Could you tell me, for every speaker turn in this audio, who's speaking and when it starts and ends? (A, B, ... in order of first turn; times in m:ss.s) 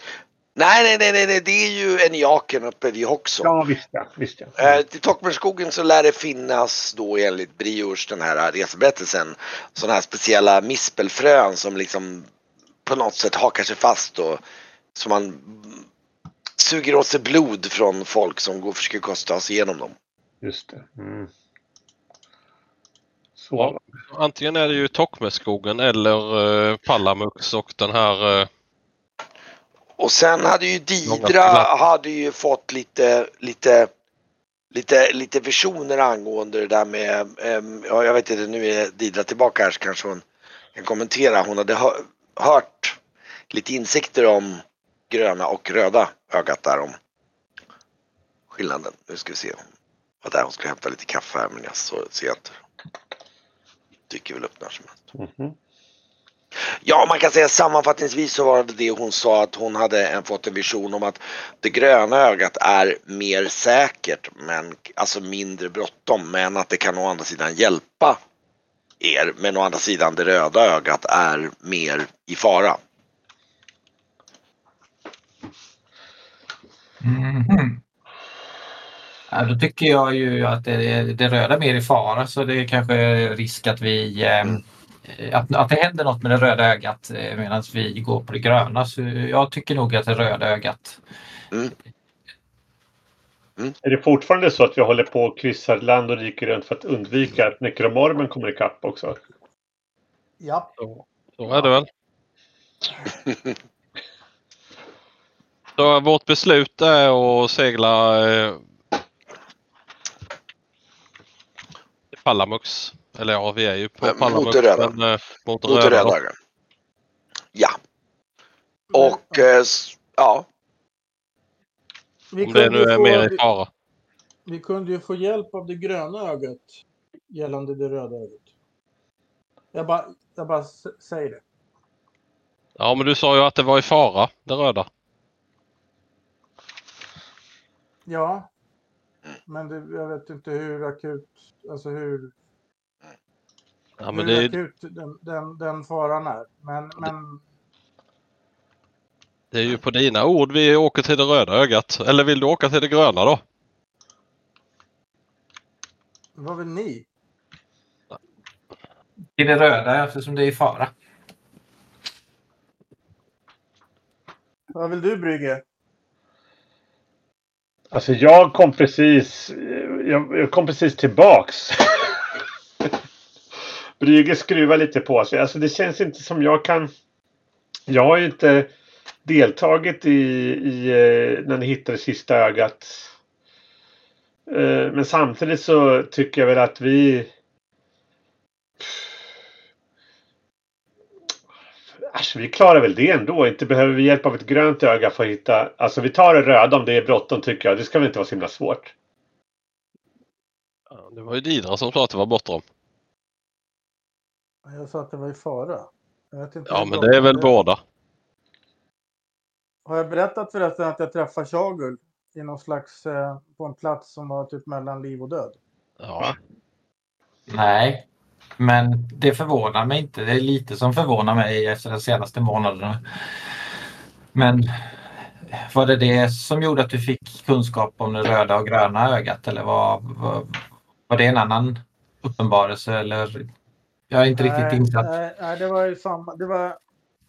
0:00.6-0:03.5 A
0:03.4-0:04.8 B
0:04.6-0:12.3 A
0:12.8-0:14.4 A
0:14.9-0:15.8 A
0:16.6-0:19.9 A
0:20.4-0:21.3 B
0:23.4-0:23.8 B
0:23.6-0:28.5 C
0:30.0-0:33.9 A
0:31.0-0:31.7 C
0:34.7-0:40.2 A
0:40.7-0:43.0 A
0:43.5-0:46.9 A
0:48.5-0:49.6 A
0:50.2-0:52.6 A
0:54.1-0:55.0 A
0:55.1-0:55.5 B
0:56.8-1:08.2 A
1:09.0-1:12.8 A
1:17.0-1:17.8 D
1:19.3-1:31.0 D
1:33.8-1:39.2 B
1:40.4-1:40.7 E
1:40.8-1:41.9 C
1:45.8-1:48.6 C
1:52.1-1:56.2 C
1:54.0-1:54.9 A
1:55.7-1:56.3 A
1:58.9-1:59.5 E
1:58.9-2:00.4 A
2:02.3-2:03.4 E
2:02.4-2:03.7 C
2:04.5-2:06.7 E
2:07.3-2:08.5 E
2:09.7-2:11.4 E
2:12.8-2:14.9 C
2:18.1-2:18.5 E
2:19.5-2:22.3 E
2:24.0-2:24.5 C
2:24.1-2:27.4 E
2:29.5-2:33.4 C
2:36.4-2:37.0 E
2:39.4-2:40.9 D
2:44.7-2:45.6 E
2:47.9-2:52.1 B
2:54.0-2:56.9 B
2:57.9-2:58.7 B
2:59.2-3:03.0 B
3:04.5-3:07.3 B
3:12.1-3:18.9 B
3:20.9-3:22.6 C
3:24.6-3:27.6 E
3:26.7-3:27.8 C
3:29.8-3:35.6 E
3:36.0-3:36.4 C
3:37.5-3:38.1 D
3:38.6-3:43.0 D
3:44.3-3:53.5 D
3:54.1-3:55.1 D
3:54.4-3:56.8 E